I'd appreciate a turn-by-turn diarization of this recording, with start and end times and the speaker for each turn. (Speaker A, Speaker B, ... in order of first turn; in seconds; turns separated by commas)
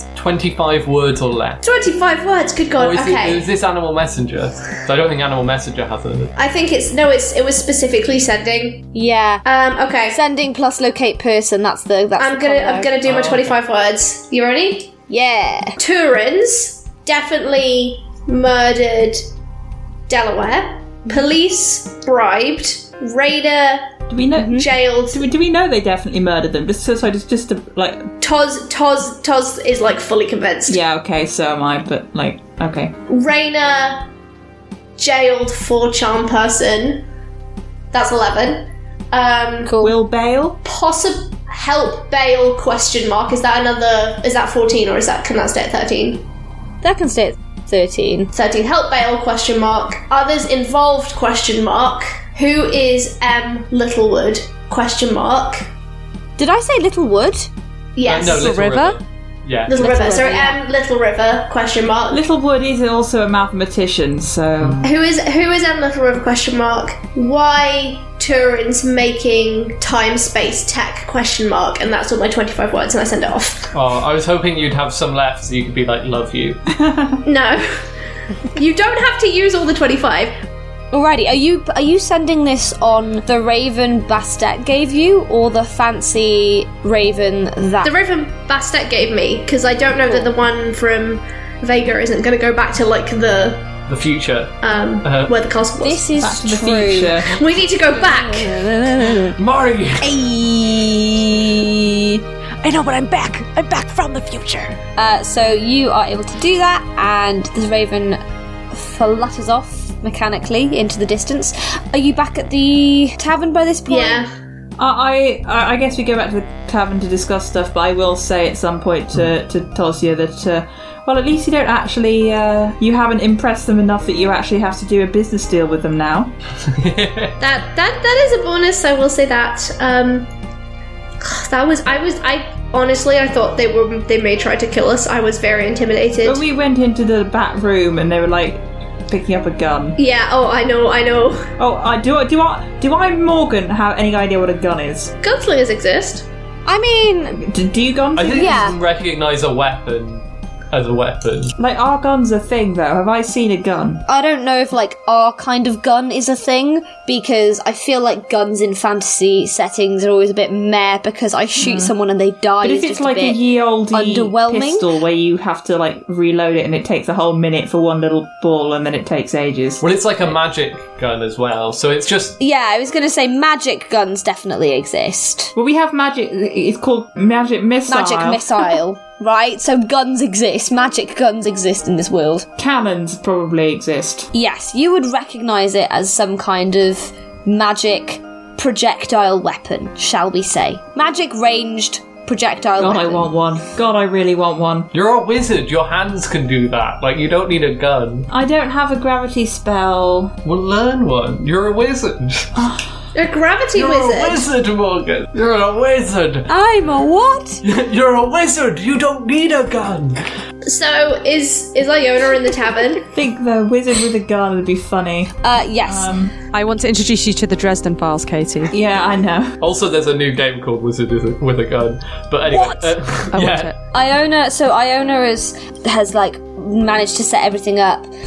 Speaker A: 0.1-1.6, Speaker B: 1.6-3.5, Speaker A: 2.8-6.3, Speaker B: 6.4-8.9, Speaker C: 8.9-9.4, Speaker B: 9.4-10.2, Speaker C: 10.1-12.9, Speaker B: 12.2-14.9, Speaker A: 13.0-13.6, Speaker C: 15.1-15.8, Speaker B: 15.8-19.2, Speaker B: 20.1-23.9, Speaker D: 24.1-28.1, Speaker C: 24.4-24.7, Speaker B: 24.5-25.2, Speaker B: 28.2-30.8, Speaker D: 30.7-33.0, Speaker B: 33.1-34.1, Speaker B: 35.0-37.0, Speaker B: 37.9-39.7, Speaker C: 39.6-40.0, Speaker D: 39.8-40.6, Speaker B: 40.6-46.2, Speaker C: 46.8-48.3, Speaker B: 48.3-55.6, Speaker C: 56.4-57.5, Speaker B: 58.0-58.6, Speaker A: 58.0-60.0, Speaker E: 58.3-59.0, Speaker B: 59.7-62.2, Speaker C: 59.7-60.6, Speaker D: 62.1-64.8, Speaker A: 64.6-64.9, Speaker B: 64.8-73.7, Speaker A: 73.7-76.6, Speaker D: 76.7-77.2, Speaker B: 77.2-77.8, Speaker B: 78.5-80.3, Speaker C: 80.9-87.9, Speaker B: 87.8-93.7, Speaker A: 93.9-95.3, Speaker B: 94.6-96.1, Speaker C: 95.8-97.3, Speaker D: 96.2-97.4, Speaker B: 97.3-98.6, Speaker C: 97.9-99.3, Speaker A: 99.1-100.2, Speaker C: 100.0-102.2, Speaker E: 102.6-104.8, Speaker C: 105.0-114.2, Speaker B: 113.9-114.3, Speaker D: 114.8-126.3, Speaker A: 126.7-127.4, Speaker B: 127.4-130.3, Speaker B: 131.2-136.4, Speaker D: 136.2-140.0, Speaker B: 140.0-141.5, Speaker D: 141.6-145.1, Speaker B: 145.2-146.3, Speaker C: 146.7-147.4, Speaker D: 147.4-148.6, Speaker A: 148.2-151.6, Speaker C: 148.3-148.8, Speaker D: 151.6-154.0, Speaker C: 154.1-164.9, Speaker D: 161.6-161.9, Speaker D: 162.6-169.8, Speaker A: 169.8-172.4, Speaker C: 172.4-175.5, Speaker D: 175.6-178.8, Speaker C: 177.9-182.5, Speaker D: 182.6-184.3, Speaker C: 184.3-193.3, Speaker D: 192.8-194.9, Speaker A: 194.9-198.3, Speaker D: 198.3-200.4, Speaker A: 200.4-202.7, Speaker B: 203.1-204.5, Speaker A: 203.7-206.5, Speaker C: 206.5-207.6, Speaker A: 207.6-210.2, Speaker B: 210.6-213.1, Speaker D: 213.1-216.3, Speaker C: 215.4-216.1, Speaker E: 216.5-218.7, Speaker D: 218.7-219.6, Speaker A: 219.6-223.7, Speaker E: 222.5-223.7, Speaker C: 223.9-228.1